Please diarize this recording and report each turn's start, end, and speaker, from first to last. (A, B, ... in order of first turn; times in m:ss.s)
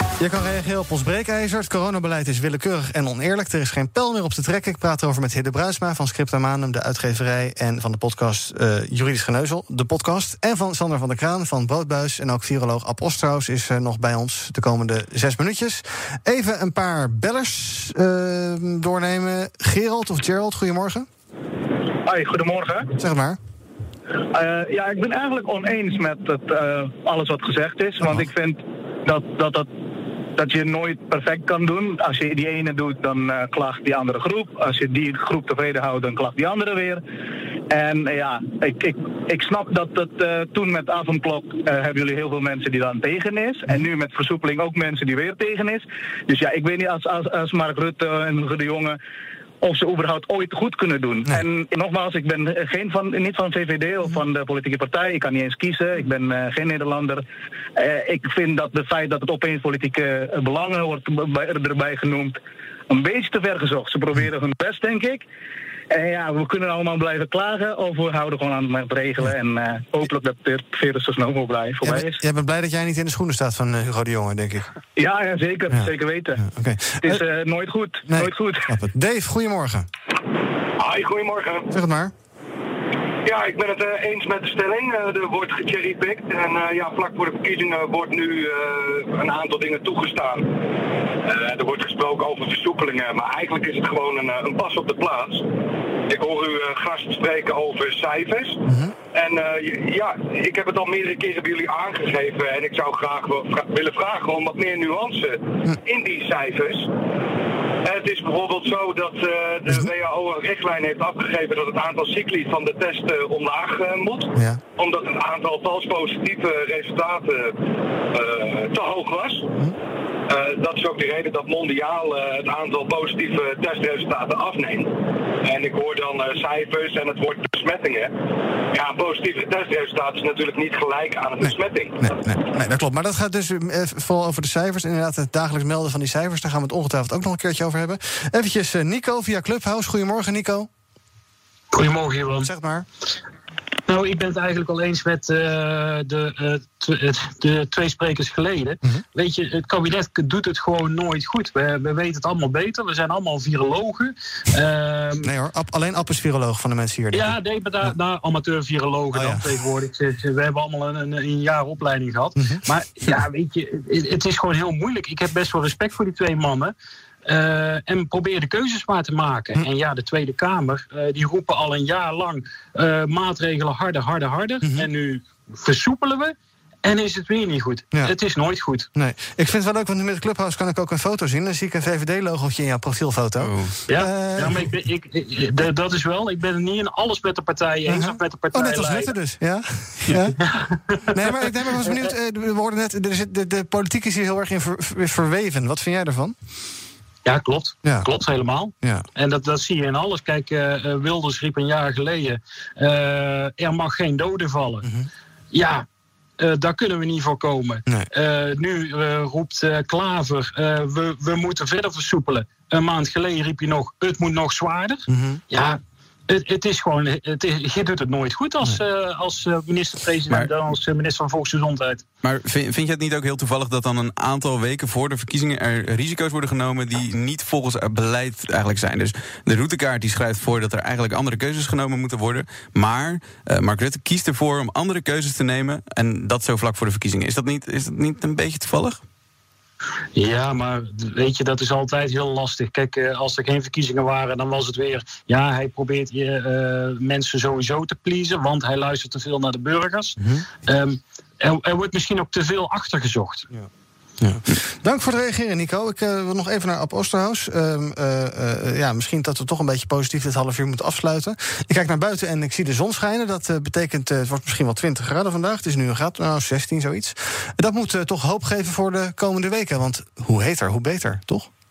0:00.2-0:21.1 A
0:22.1-0:22.9 B
0:23.0-0:23.4 A
0:24.3-0:29.7 B
0:30.4-0:37.0 B
0:37.7-0:49.0 B
0:49.6-0:57.2 B
0:57.8-1:02.4 B
1:02.9-1:05.2 B
1:05.9-1:12.2 B
1:11.8-1:14.7 A
1:15.0-1:16.4 B
1:15.7-1:17.2 A
1:17.0-1:18.7 B
1:18.1-1:19.9 A
1:20.8-1:21.7 C
1:21.7-1:22.1 A
1:23.2-1:30.5 C
1:31.2-1:35.5 C
1:36.1-1:46.9 C
1:38.7-1:38.9 A
1:47.8-1:57.6 C
1:54.4-1:54.6 A
1:58.1-1:59.5 C
2:00.3-2:08.1 C
2:08.7-2:12.0 C
2:11.4-2:20.7 A
2:21.7-2:22.5 D
2:22.4-2:22.9 A
2:23.9-2:35.3 D
2:35.2-2:37.9 A
2:37.1-2:46.8 D
2:39.1-2:39.5 A
2:42.4-2:42.6 A
2:47.3-2:58.9 D
2:54.6-2:54.9 A
2:58.9-3:04.7 A
3:03.4-3:03.7 E
3:03.9-3:09.1 D
3:07.9-3:10.4 A
3:10.4-3:12.1 D
3:11.1-3:16.4 A
3:17.2-3:24.9 D
3:17.8-3:18.1 A
3:24.8-3:25.1 A
3:25.5-3:25.9 D
3:26.4-3:42.0 D
3:35.1-3:35.4 A
3:42.2-3:59.0 E
4:00.1-4:13.5 D
4:10.2-4:10.5 A
4:14.2-4:31.5 A